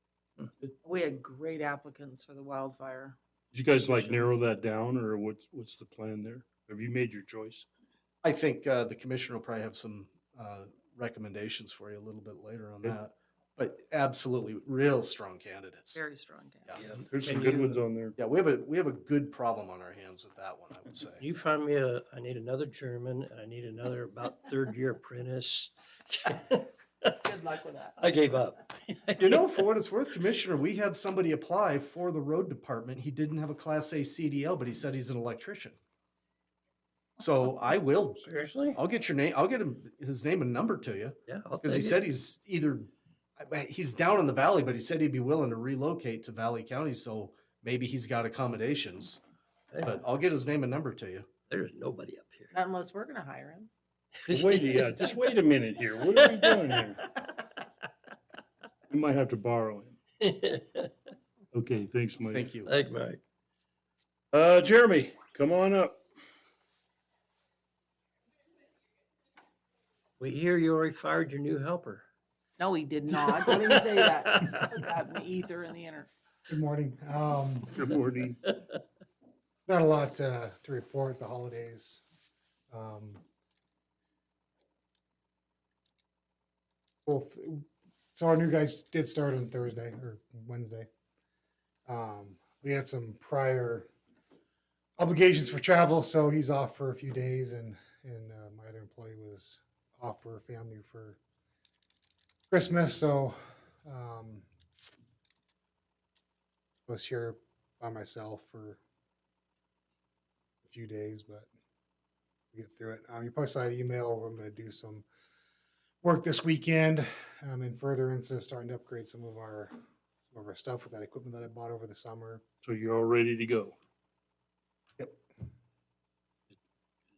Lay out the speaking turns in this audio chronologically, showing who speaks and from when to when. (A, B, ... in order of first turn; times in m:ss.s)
0:00.8-0:03.2 A
0:03.5-0:07.7 B
0:03.9-0:04.4 C
0:08.2-0:16.0 D
0:16.0-0:16.9 A
0:16.7-0:17.4 D
0:16.9-0:18.2 B
0:17.0-0:17.8 C
0:18.2-0:21.3 D
0:21.2-0:27.2 C
0:27.1-0:28.0 A
0:28.0-0:29.4 C
0:29.2-0:35.8 D
0:37.2-0:49.2 D
0:38.2-0:38.8 C
0:41.3-0:42.1 C
0:49.7-0:50.0 C
0:49.8-0:51.3 D
0:51.5-0:52.6 C
0:52.5-0:53.7 A
0:54.2-0:55.3 C
0:54.3-0:57.0 B
0:56.0-0:57.3 C
0:58.9-1:00.0 B
1:00.2-1:00.9 C
1:01.5-1:02.5 B
1:02.3-1:02.8 D
1:02.6-1:03.2 C
1:04.3-1:06.0 B
1:10.2-1:12.1 C
1:12.6-1:16.1 A
1:13.1-1:14.8 C
1:16.5-1:17.8 E
1:17.7-1:18.5 B
1:18.5-1:18.8 C
1:19.7-1:22.0 E
1:22.7-1:23.2 E
1:27.0-1:30.9 E
1:31.9-1:33.9 E
1:35.0-1:41.2 E
1:42.5-1:44.5 E
1:46.9-1:48.8 E
1:50.6-1:51.5 E
1:52.5-1:55.1 E
1:56.0-2:02.4 E
2:02.6-2:03.8 B